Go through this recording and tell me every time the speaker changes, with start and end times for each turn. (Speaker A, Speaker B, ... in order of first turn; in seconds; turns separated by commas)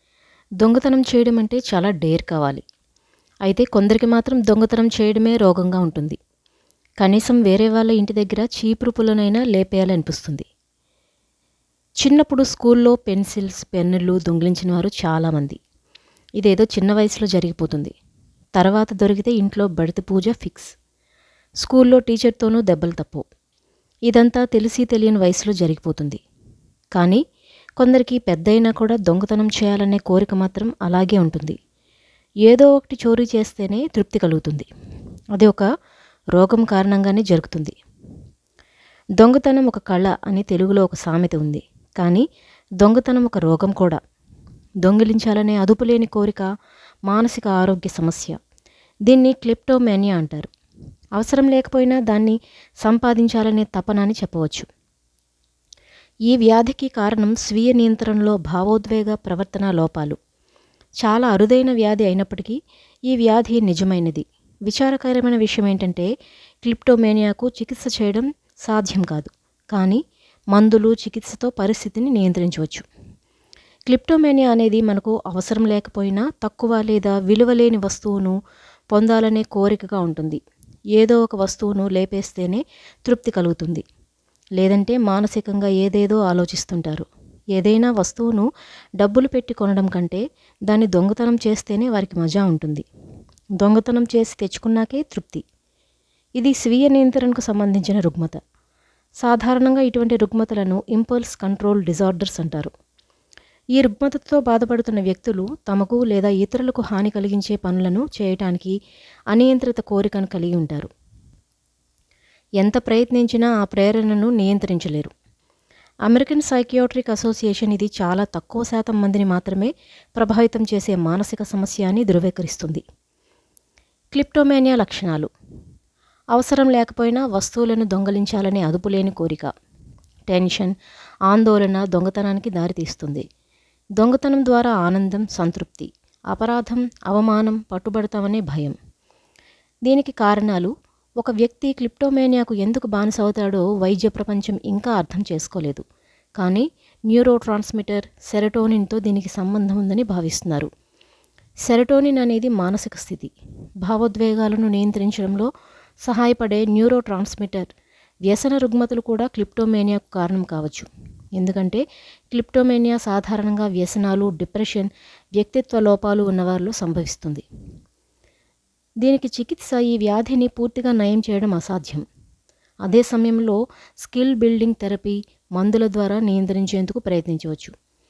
Speaker A: 0.6-2.6, Speaker A: 3.5-6.2, Speaker A: 7.0-10.5, Speaker A: 12.0-15.6, Speaker A: 16.4-17.9, Speaker A: 18.6-20.7, Speaker A: 21.6-23.2, Speaker A: 24.1-26.2, Speaker A: 27.0-27.2, Speaker A: 27.8-31.6, Speaker A: 32.5-34.7, Speaker A: 35.4-35.7, Speaker A: 36.3-37.8, Speaker A: 39.2-42.2, Speaker A: 42.8-44.0, Speaker A: 44.8-46.5, Speaker A: 47.0-48.4, Speaker A: 49.1-50.5, Speaker A: 51.1-54.7, Speaker A: 56.3-60.2, Speaker A: 61.0-62.5, Speaker A: 63.1-66.1, Speaker A: 66.6-70.0, Speaker A: 70.5-72.8, Speaker A: 73.9-78.3, Speaker A: 78.9-80.4, Speaker A: 81.0-83.8, Speaker A: 84.6-88.5, Speaker A: 89.0-92.8, Speaker A: 93.6-95.4, Speaker A: 96.4-98.4, Speaker A: 99.2-102.7, Speaker A: 103.8-108.7, Speaker A: 109.3-110.9, Speaker A: 112.6-115.1, Speaker A: 116.1-122.8, Speaker A: 124.1-125.3, Speaker A: 126.3-129.5, Speaker A: 130.3-130.8, Speaker A: 131.3-133.2, Speaker A: 134.0-138.8, Speaker A: 139.8-145.8, Speaker A: 146.4-150.7, Speaker A: 151.7-153.3, Speaker A: 153.8-155.5, Speaker A: 156.0-157.7, Speaker A: 158.3-167.4, Speaker A: 169.0-172.0, Speaker A: 172.8-177.7